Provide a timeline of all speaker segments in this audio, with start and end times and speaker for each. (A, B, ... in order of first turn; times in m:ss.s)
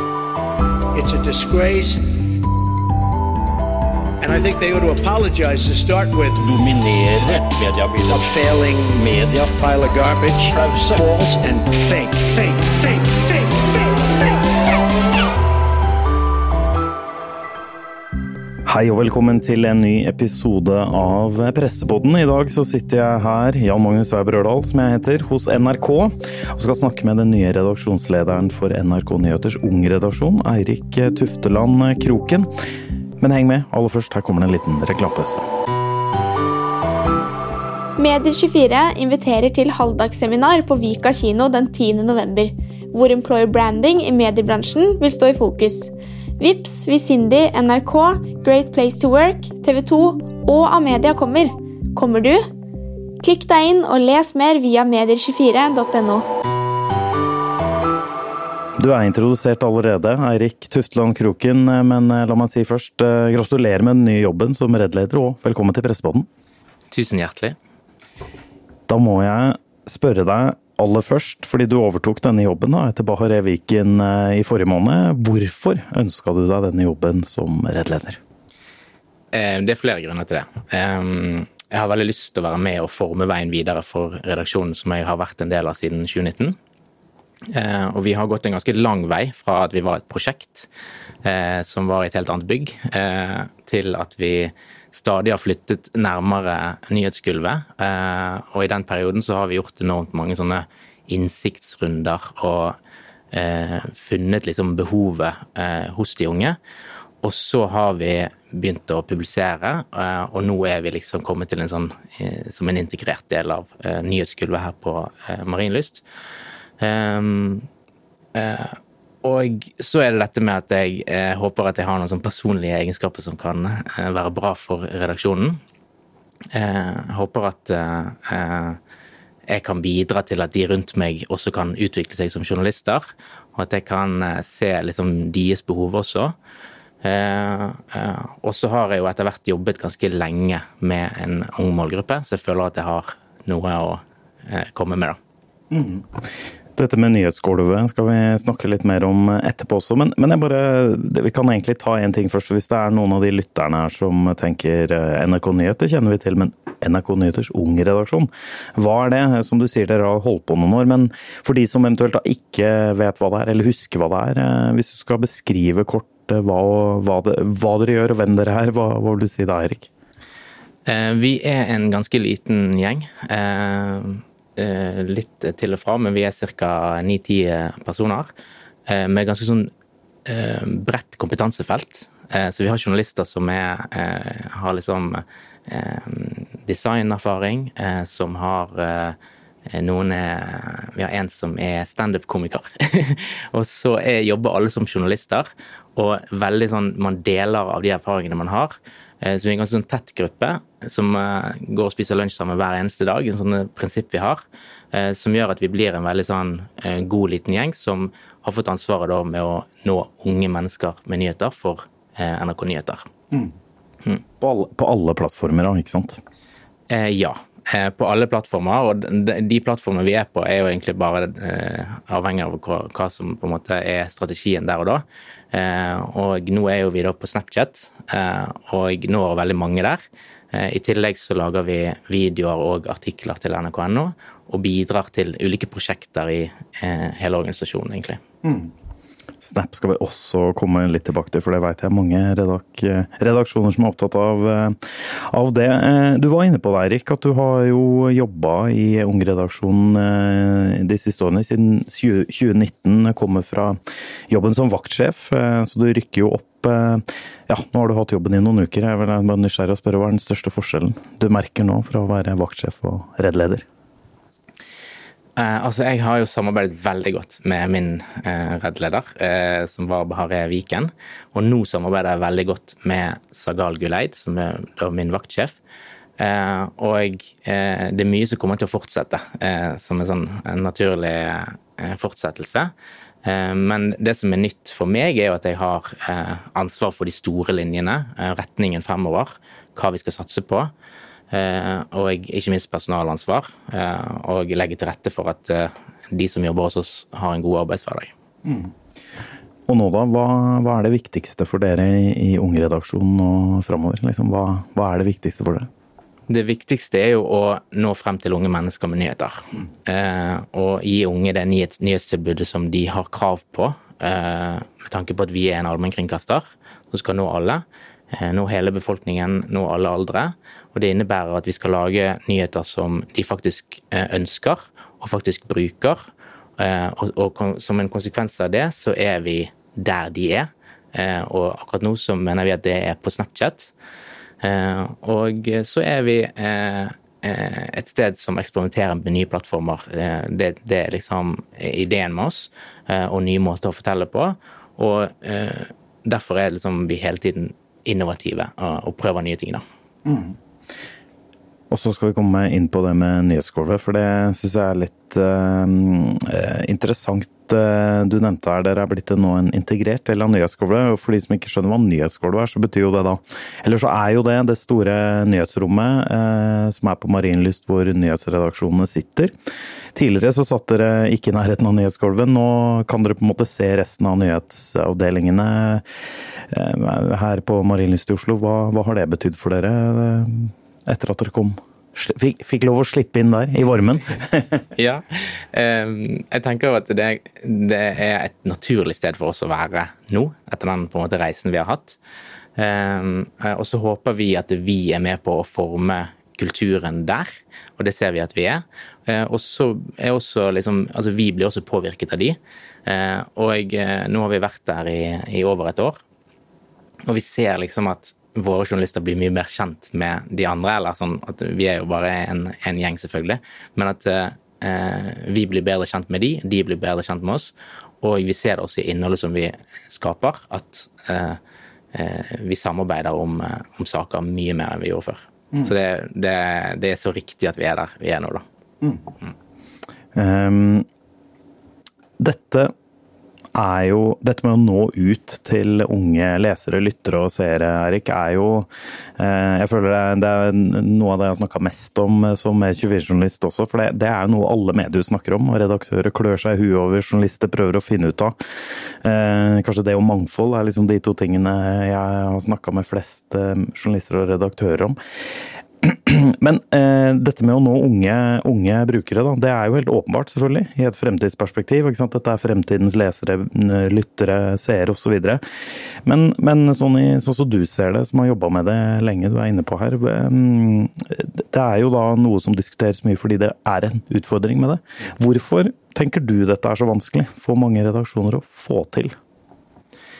0:00.9-0:02.0 A
0:04.2-0:06.6 A
0:06.4-0:08.3 B
0:08.1-0:14.4 A
0:08.9-0:09.6 B
0:10.5-0:11.2 B
0:18.6-0:32.5 C
0:33.2-0:35.5 C
0:38.0-0:52.5 D
0:53.2-0:56.3 D
0:58.8-1:06.3 C
1:06.9-1:07.6 E
1:08.9-1:18.2 C
1:19.3-1:26.6 E
1:27.5-1:30.7 E
1:31.2-1:42.8 E
1:43.3-1:46.6 E
1:47.2-1:56.0 E
1:56.8-1:57.7 E
1:58.3-2:05.6 E
2:06.5-2:08.8 E
2:09.5-2:16.3 E
2:17.0-2:25.2 E
2:25.7-2:26.1 C
2:26.8-2:49.9 C
2:50.8-2:58.3 E
2:58.9-2:59.7 E
3:00.2-3:09.2 E
3:09.7-3:33.1 E
3:34.4-3:36.2 C
3:36.9-3:50.0 E
3:50.5-3:58.2 E
3:58.4-3:58.7 C
3:59.4-4:13.8 C
4:14.3-4:23.6 C
4:25.4-4:35.6 E
4:36.2-4:42.7 E
4:43.2-4:50.7 E
4:51.3-4:58.1 E
4:58.4-4:58.7 C
4:59.7-5:05.7 C
5:06.3-5:26.1 E
5:26.6-5:33.7 E
5:34.4-5:49.6 E
5:50.0-5:50.3 C
5:51.7-6:09.3 C
6:09.9-6:15.8 C
6:16.5-6:24.6 C
6:24.7-6:32.0 E
6:32.6-6:46.0 E
6:47.1-7:01.4 E
7:01.9-7:08.4 E
7:10.1-7:10.9 C
7:12.2-7:12.7 C
7:13.5-7:28.3 C
7:29.0-7:35.0 C
7:35.8-7:45.4 C
7:46.0-7:59.2 C